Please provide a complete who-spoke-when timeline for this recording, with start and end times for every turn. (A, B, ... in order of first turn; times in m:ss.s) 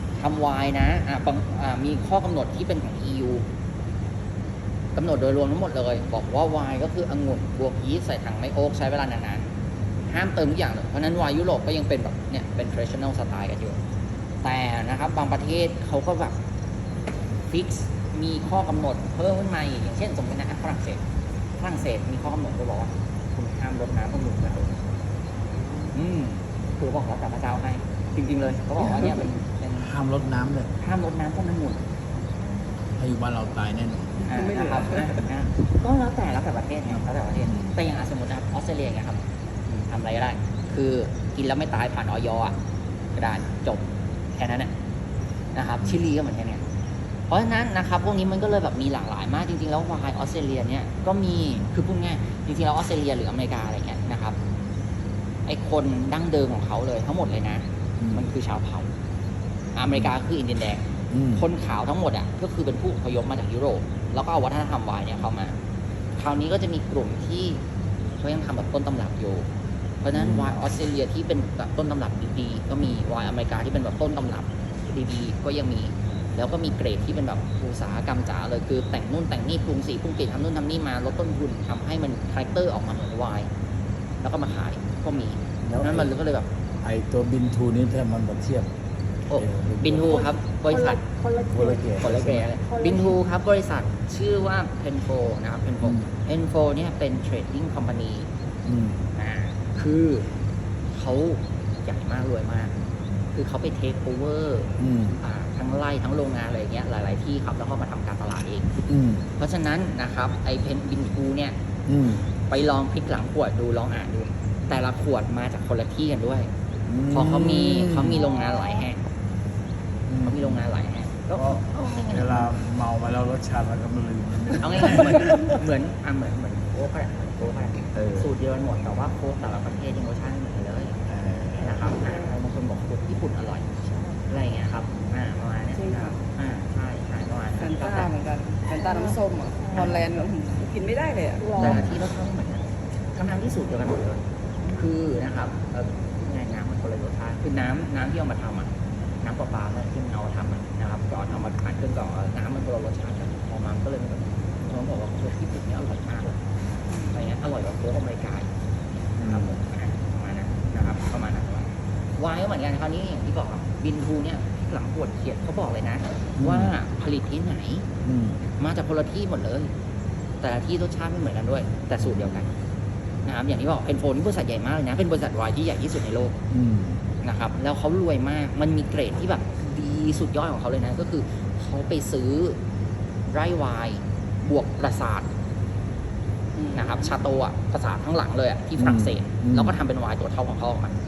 0:00.2-0:03.4 A
0:04.9-0:09.5 A
0:10.1-0:13.8 A
0:14.4-0:16.3 A
0:17.5-0:21.0 A
0:21.6-0:24.7 A
0:25.5-0:25.9 B
0:25.9-0:29.9 A
0:29.8-0:30.7 C
0:30.8-0:31.8 A
0:33.0-0:34.2 C
0:34.2-0:35.1 B
0:34.3-0:42.6 A
0:37.4-0:37.8 C
0:43.1-0:44.7 A
0:45.5-0:46.6 A
0:47.3-0:54.4 A
0:55.5-0:58.9 A
0:58.0-0:58.2 C
0:59.7-1:05.5 A
1:01.1-1:01.4 C
1:06.2-1:07.6 A
1:08.2-1:09.4 A
1:10.0-1:23.5 A
1:10.1-1:10.5 C
1:24.2-1:26.5 A
1:25.6-1:26.1 C
1:26.8-1:28.7 C
1:29.3-1:31.0 A
1:29.4-1:30.3 C
1:30.0-1:31.9 D
1:31.5-1:32.5 C
1:32.0-1:38.3 A
1:32.6-1:33.2 D
1:35.8-1:36.1 C
1:38.6-1:39.0 C
1:39.2-1:40.3 A
1:40.9-1:42.7 A
1:43.3-1:48.7 A
1:44.8-1:45.2 C
1:48.9-1:49.3 C
1:49.4-1:51.5 A
1:51.9-1:52.3 C
1:52.5-1:56.5 A
1:56.8-1:58.2 C
1:57.1-1:59.0 A
2:00.1-2:00.6 C
2:00.2-2:02.5 A
2:01.4-2:05.6 C
2:04.6-2:11.0 A
2:07.9-2:08.3 C
2:11.1-2:11.9 C
2:11.6-2:18.1 A
2:15.7-2:16.2 B
2:17.6-2:21.5 B
2:18.8-2:19.1 D
2:19.7-2:20.0 A
2:21.4-2:21.8 D
2:21.6-2:28.7 A
2:21.6-2:21.9 C
2:29.2-2:36.4 A
2:36.9-2:37.3 B
2:37.1-2:38.5 A
2:39.1-2:47.8 A
2:39.2-2:39.6 C
2:46.4-2:46.7 C
2:48.0-2:48.4 C
2:48.5-2:49.7 A
2:50.4-2:52.5 A
2:52.0-2:52.5 C
2:53.2-2:56.3 A
2:56.5-2:57.0 C
2:57.2-3:02.6 A
3:03.3-3:05.3 A
3:06.6-3:07.2 B
3:06.7-3:10.9 A
3:08.8-3:09.8 C